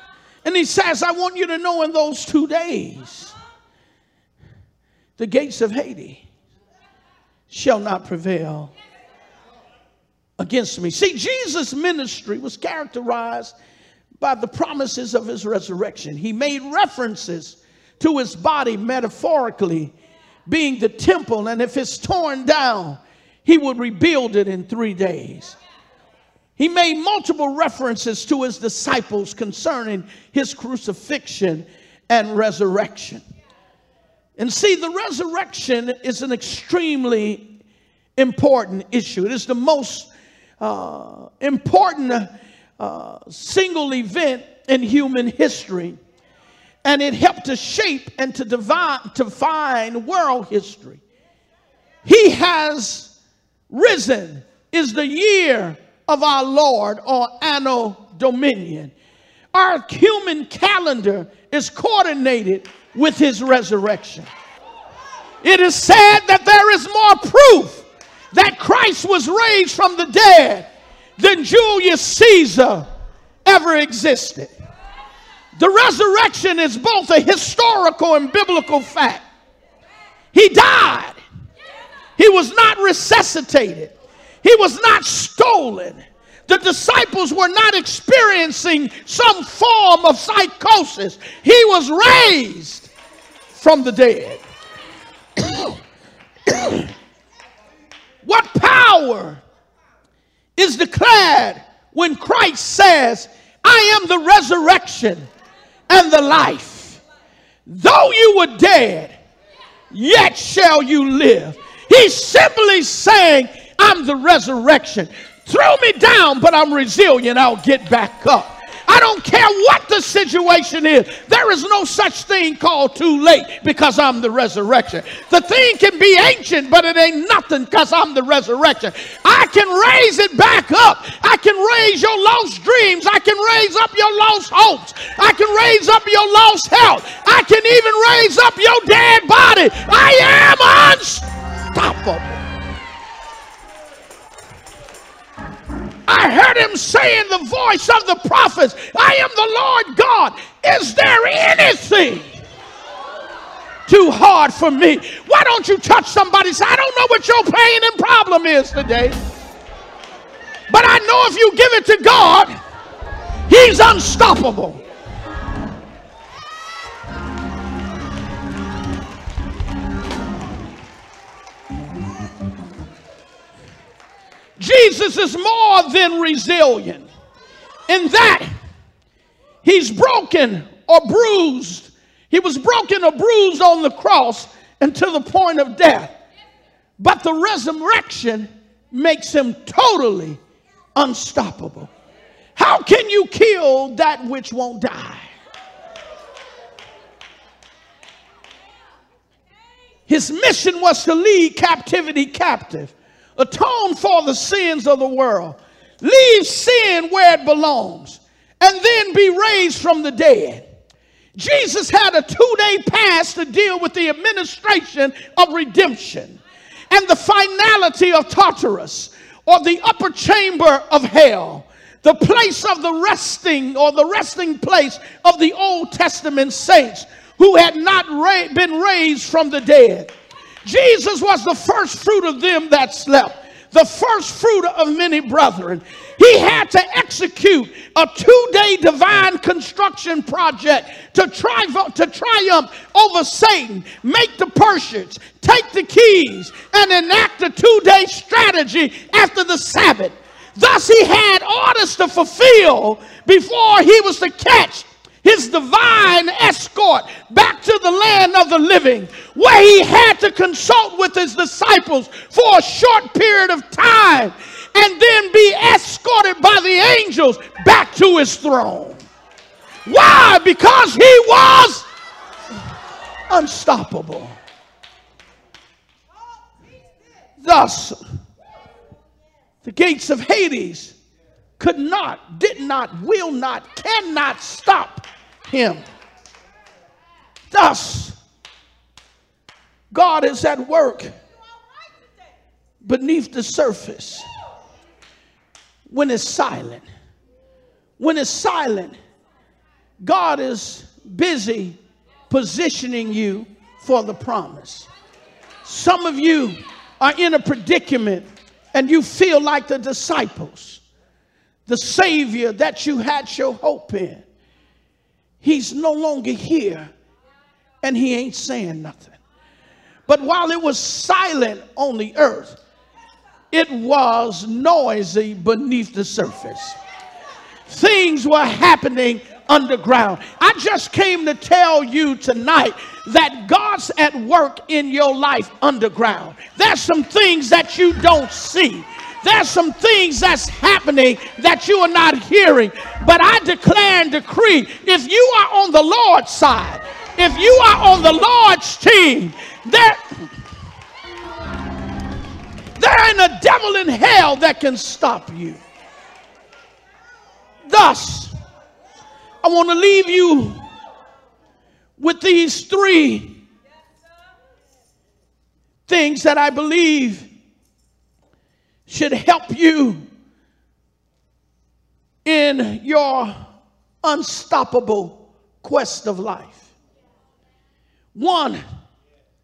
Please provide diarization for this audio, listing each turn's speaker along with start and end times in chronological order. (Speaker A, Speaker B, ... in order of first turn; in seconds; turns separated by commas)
Speaker A: 0.4-3.4, Speaker A: 5.2-6.2, Speaker A: 7.5-8.7, Speaker A: 10.4-13.6, Speaker A: 14.2-19.9, Speaker A: 20.5-25.6, Speaker A: 26.6-33.2, Speaker A: 34.4-37.5, Speaker A: 38.2-46.0, Speaker A: 46.8-51.0, Speaker A: 52.0-53.1, Speaker A: 53.7-58.9, Speaker A: 59.5-64.3, Speaker A: 65.4-72.9, Speaker A: 73.5-74.5, Speaker A: 75.5-79.2, Speaker A: 80.3-81.2, Speaker A: 82.2-92.9, Speaker A: 93.5-94.4, Speaker A: 95.4-95.8, Speaker A: 96.5-96.9, Speaker A: 98.2-99.4, Speaker A: 100.6-105.3, Speaker A: 105.9-107.0, Speaker A: 107.7-109.2, Speaker A: 109.9-142.4, Speaker A: 146.1-152.4, Speaker A: 153.9-159.2, Speaker A: 160.7-162.6, Speaker A: 163.5-164.8, Speaker A: 174.6-177.1, Speaker A: 177.9-178.5, Speaker A: 179.6-186.2, Speaker A: 187.0-190.4, Speaker A: 191.0-191.9, Speaker A: 192.6-195.3, Speaker A: 200.1-210.7, Speaker A: 211.4-216.4, Speaker A: 216.9-230.1, Speaker A: 230.7-269.1, Speaker A: 269.9-271.9, Speaker A: 273.3-274.4, Speaker A: 277.4-278.0, Speaker A: 279.6-280.9, Speaker A: 281.6-285.9, Speaker A: 287.5-288.2, Speaker A: 289.9-291.1, Speaker A: 292.8-294.3, Speaker A: 295.9-296.9, Speaker A: 298.0-298.9, Speaker A: 300.0-301.8, Speaker A: 302.3-304.9, Speaker A: 305.6-310.8, Speaker A: 311.7-314.2, Speaker A: 315.4-316.9, Speaker A: 317.8-319.2, Speaker A: 320.1-322.6, Speaker A: 323.5-326.8, Speaker A: 327.7-350.0, Speaker A: 352.8-355.6, Speaker A: 357.6-358.3, Speaker A: 359.4-360.7, Speaker A: 362.0-363.4, Speaker A: 365.9-367.3, Speaker A: 368.9-370.0, Speaker A: 372.2-373.4, Speaker A: 374.0-376.7, Speaker A: 378.1-378.6